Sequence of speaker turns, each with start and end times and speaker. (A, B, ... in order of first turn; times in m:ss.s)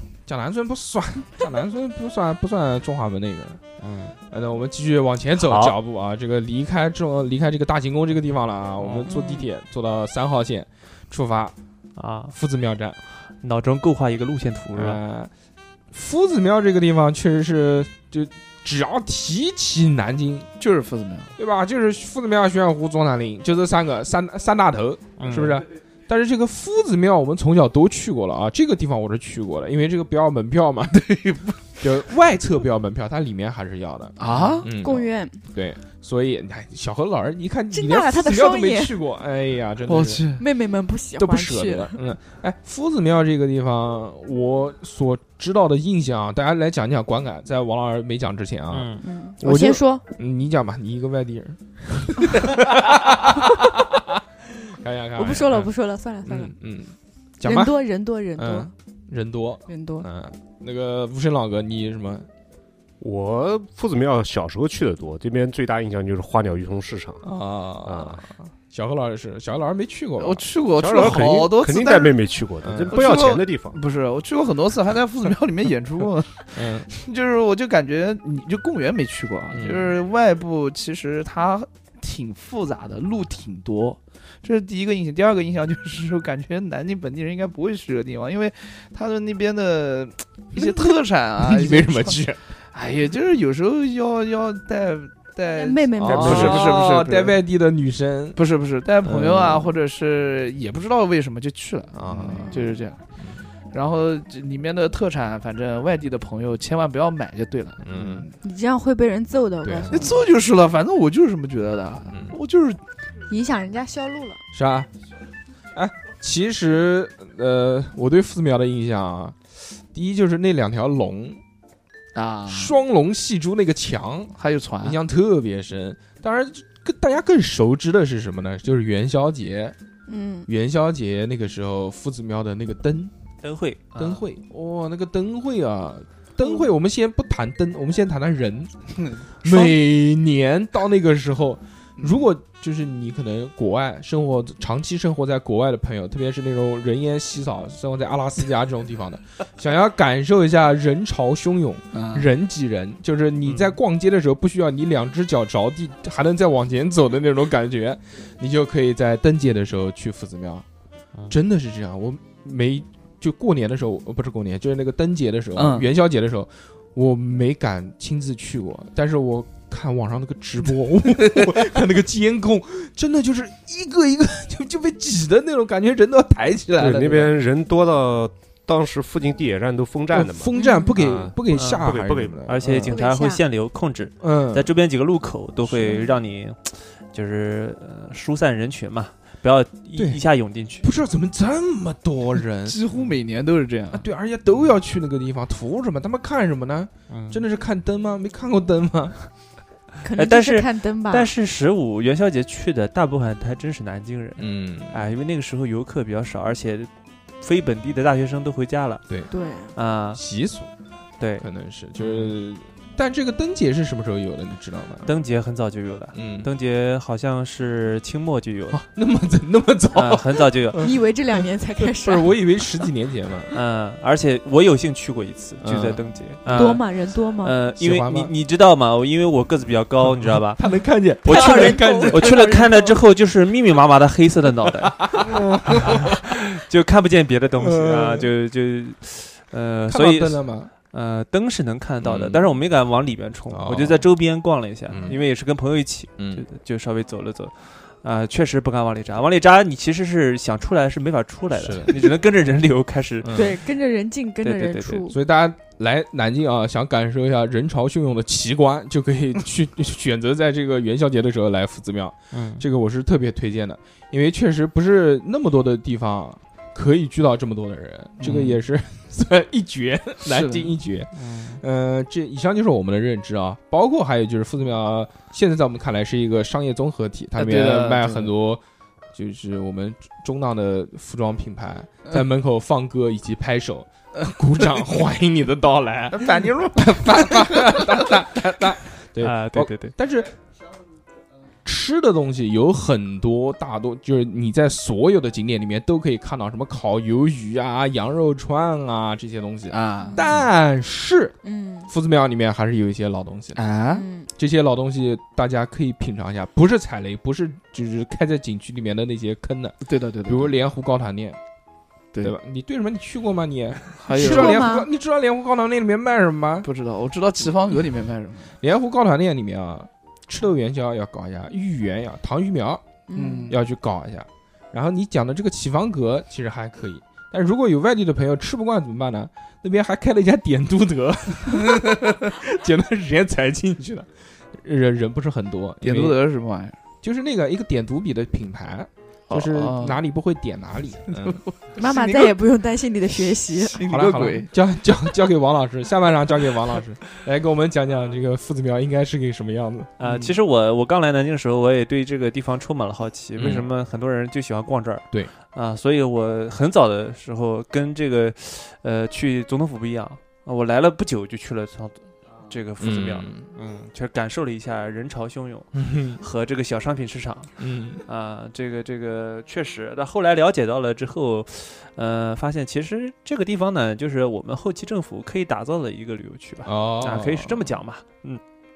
0:00.3-0:03.6 A
0:03.8-0:04.2 B
0:04.3-0:11.6 A
0:05.4-0:05.8 B
0:08.8-0:09.1 B
0:09.1-0:09.5 C
0:12.0-0:12.3 B
0:12.3-0:13.0 A
0:13.4-0:15.0 B
0:14.8-0:15.3 A
0:15.9-0:20.5 A
0:20.6-0:21.3 D
0:21.4-0:31.0 A
0:25.2-0:25.6 B
0:30.9-0:31.8 D
0:31.8-0:40.2 A
0:34.2-0:34.7 D
0:34.3-0:34.6 B
0:34.6-0:35.4 C
0:37.7-0:39.0 C
0:39.9-0:40.4 D
0:40.4-0:42.0 C
0:41.2-0:55.7 A
0:48.7-0:49.0 B
0:49.0-0:50.0 C
0:55.2-0:56.5 C
0:56.3-0:57.8 A
0:57.4-0:58.7 C
0:58.4-1:02.3 A
0:59.7-1:00.1 C
1:03.0-1:07.3 E
1:07.2-1:10.5 A
1:07.8-1:08.2 E
1:10.2-1:12.2 D
1:10.8-1:13.8 E
1:12.6-1:13.0 A
1:12.9-1:32.2 D
1:16.6-1:16.9 A
1:19.5-1:19.9 A
1:30.5-1:32.4 A
1:32.7-1:37.4 D
1:35.5-1:36.8 C
1:36.0-1:38.4 A
1:36.1-1:36.6 E
1:38.4-1:43.0 D
1:39.0-1:39.7 A
1:41.9-1:42.6 A
1:42.4-1:42.8 C
1:43.7-1:48.4 D
1:47.8-1:48.3 A
1:48.4-1:50.2 C
1:49.6-1:50.2 A
1:49.9-1:52.8 D
1:52.1-1:52.4 A
1:53.3-1:54.4 C
1:54.5-1:54.9 A
1:55.7-2:01.4 A
2:02.1-2:02.8 D
2:02.5-2:09.8 A
2:04.4-2:05.0 D
2:10.1-2:10.5 C
2:10.5-2:13.1 A
2:13.4-2:14.2 B
2:14.0-2:40.7 A
2:19.4-2:19.7 D
2:22.0-2:22.2 D
2:31.9-2:32.3 D
2:33.5-2:33.8 B
2:41.3-2:57.3 A
2:45.6-2:45.9 D
2:56.8-3:02.5 E
3:00.1-3:02.9 A
3:00.6-3:01.0 C
3:01.5-3:10.9 B
3:02.8-3:03.4 C
3:04.2-3:04.7 A
3:05.7-3:06.1 A
3:10.0-3:10.2 A
3:10.8-3:12.8 A
3:12.7-3:14.1 D
3:13.9-3:19.2 A
3:17.1-3:17.4 B
3:20.0-3:21.3 C
3:20.2-3:26.9 B
3:24.4-3:25.0 A
3:27.4-3:29.0 B
3:29.3-3:29.7 C
3:29.7-3:30.2 B
3:30.1-3:30.7 A
3:31.2-3:31.5 B
3:31.4-3:35.1 A
3:32.0-3:32.3 B
3:35.0-3:38.8 B
3:36.1-3:36.5 A
3:38.7-3:43.5 A
3:39.9-3:40.9 B
3:40.8-3:42.3 C
3:43.5-3:50.6 B
3:45.6-3:46.8 A
3:46.5-3:47.6 C
3:47.8-3:48.3 A
3:50.1-3:52.7 A
3:51.2-4:13.4 B
3:51.3-3:52.9 C
3:54.9-3:56.3 A
3:57.6-3:58.3 A
3:59.9-4:00.7 A
4:02.0-4:02.4 A
4:03.5-4:04.1 A
4:04.9-4:05.2 A
4:06.2-4:06.4 A
4:11.5-4:12.2 A
4:13.2-4:13.6 A
4:13.3-4:15.2 C
4:14.4-4:15.0 B
4:15.1-4:38.6 A
4:22.3-4:22.6 B
4:28.2-4:28.6 D
4:30.2-4:30.7 D
4:31.1-4:31.6 B
4:37.4-4:38.3 D
4:39.1-4:50.4 A
4:46.1-4:48.2 D
4:49.2-4:49.9 B
4:51.6-5:01.4 A
4:59.7-5:00.4 D
5:01.4-5:01.9 C
5:01.9-5:03.6 A
5:03.6-5:04.1 D
5:04.0-5:04.3 C
5:04.4-5:11.4 A
5:09.8-5:10.5 D
5:12.2-5:16.7 A
5:14.0-5:14.8 D
5:14.1-5:14.9 C
5:16.6-5:18.6 D
5:18.6-5:22.8 A
5:23.1-5:23.5 C
5:23.2-5:23.6 D
5:23.5-5:36.2 A
5:35.8-5:36.8 D
5:37.0-5:41.4 A
5:39.3-5:40.0 D
5:41.1-5:42.4 D
5:41.8-5:43.8 C
5:43.5-5:44.5 D
5:43.8-5:49.9 A
5:50.0-6:07.5 B
5:53.4-5:53.7 A
6:02.8-6:03.5 A
6:05.7-6:06.2 A
6:07.6-6:08.0 A
6:08.0-6:18.4 B
6:16.6-6:17.8 A